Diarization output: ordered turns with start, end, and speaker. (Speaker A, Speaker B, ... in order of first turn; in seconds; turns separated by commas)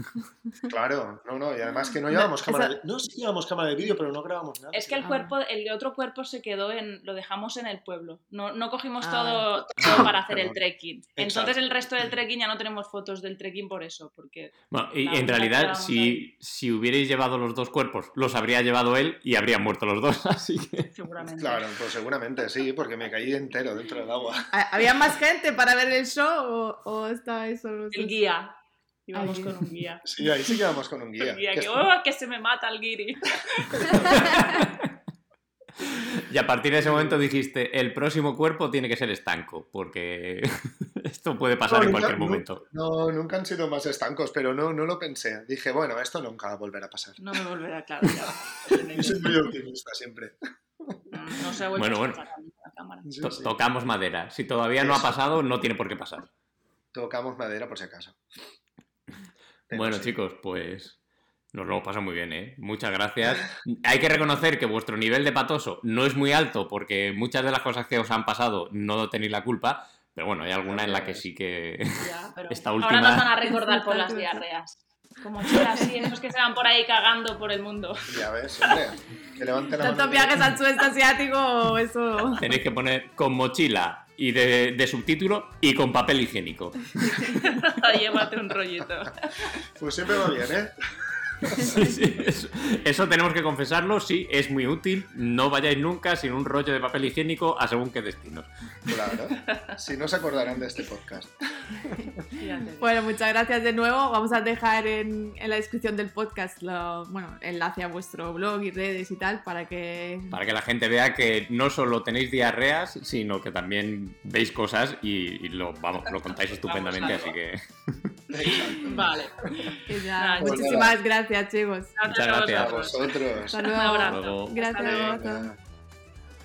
Speaker A: 0.7-5.1, Speaker B: 2.1-2.7, Speaker C: 4.7-16.2, Speaker B: 5.0-5.3, Speaker B: 9.0-9.9, Speaker A: 9.8-10.6, Speaker A: 11.2-11.5, Speaker D: 14.7-20.9, Speaker C: 20.9-21.7, Speaker A: 21.2-24.5, Speaker B: 24.5-28.2, Speaker C: 27.9-28.6, Speaker C: 29.1-30.0, Speaker B: 29.1-29.6, Speaker A: 30.0-31.9, Speaker C: 31.2-34.3, Speaker A: 33.7-34.3, Speaker D: 34.2-34.8, Speaker D: 35.9-42.6, Speaker A: 36.8-37.2, Speaker A: 41.7-47.2, Speaker C: 47.2-49.3, Speaker A: 48.0-48.3, Speaker A: 48.9-51.0, Speaker C: 51.1-53.1, Speaker D: 51.8-52.2, Speaker A: 53.0-53.5, Speaker D: 53.2-56.3, Speaker A: 54.8-55.1, Speaker A: 56.9-58.2, Speaker A: 59.7-60.1, Speaker D: 59.7-61.0, Speaker D: 61.5-73.3, Speaker A: 70.7-71.2, Speaker C: 72.0-78.8, Speaker B: 73.5-74.4, Speaker B: 75.6-75.8, Speaker A: 78.1-80.5, Speaker B: 79.8-82.4, Speaker D: 82.4-87.2, Speaker C: 87.2-89.6, Speaker A: 89.8-90.7, Speaker A: 91.3-91.8, Speaker D: 91.5-98.9, Speaker A: 98.9-102.1, Speaker C: 99.5-99.8, Speaker C: 102.3-102.9, Speaker B: 102.8-110.4, Speaker D: 110.3-118.1, Speaker C: 116.1-117.3, Speaker A: 118.3-119.7, Speaker C: 118.4-120.9, Speaker B: 119.8-121.9, Speaker A: 120.4-121.0, Speaker C: 122.0-125.1, Speaker D: 122.1-122.9, Speaker A: 122.5-123.8, Speaker B: 123.5-125.5, Speaker D: 123.9-125.0, Speaker A: 124.8-125.6